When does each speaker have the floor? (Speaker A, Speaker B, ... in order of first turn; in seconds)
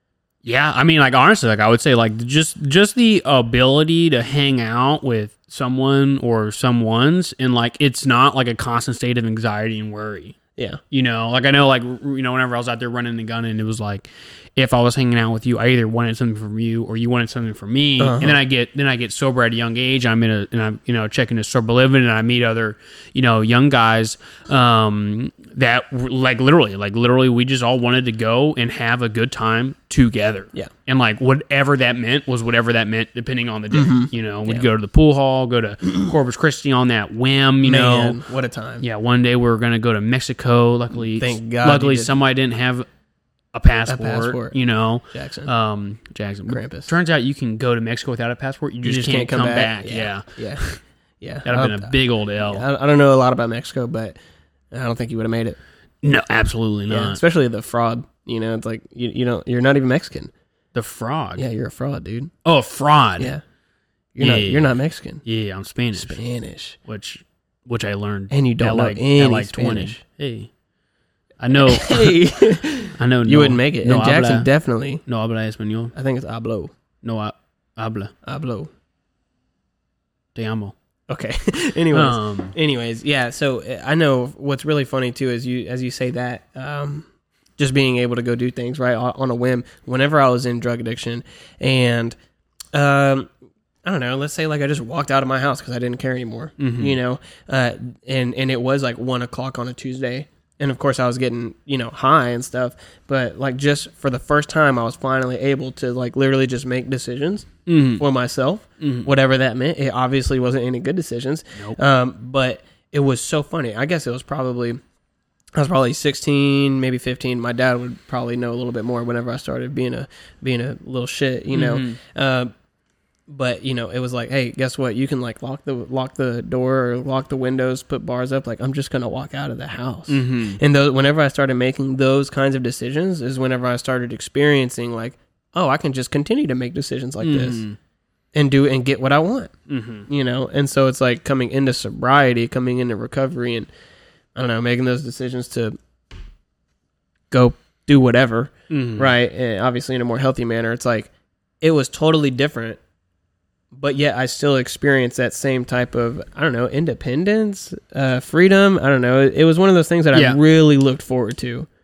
Speaker A: 0.4-10.3, 10.9-38.2, 38.8-42.9, 43.5-50.8, 51.5-52.6, 56.0-57.2, 60.7-61.4, 62.4-63.3, 64.2-64.7, 65.2-66.2, 66.9-70.5, 71.4-72.3, 73.0-74.5, 75.1-75.9, 77.0-78.1, 80.3-80.7, 81.9-82.5, 96.6-97.0, 107.7-108.0, 108.8-109.1, 121.5-122.0, 130.1-130.6, 137.2-137.8, 139.7-140.1, 148.7-149.1, 160.1-160.4
Speaker B: 18.0-18.4, 33.7-34.6, 37.6-38.9, 41.1-42.1, 43.9-44.5, 45.1-45.5, 46.5-46.9, 48.8-50.6, 51.2-54.2, 54.7-55.6, 56.9-60.3, 61.3-62.3, 64.2-65.2, 65.9-66.8, 68.3-70.0, 71.6-75.0, 75.9-76.7, 78.2-78.7, 81.1-87.0, 87.6-92.1, 92.7-93.3, 93.8-114.8, 115.5-122.5, 123.3-137.6, 138.3-139.5, 140.1-143.7, 144.3-145.8, 147.3-151.1, 151.6-152.8, 153.7-161.7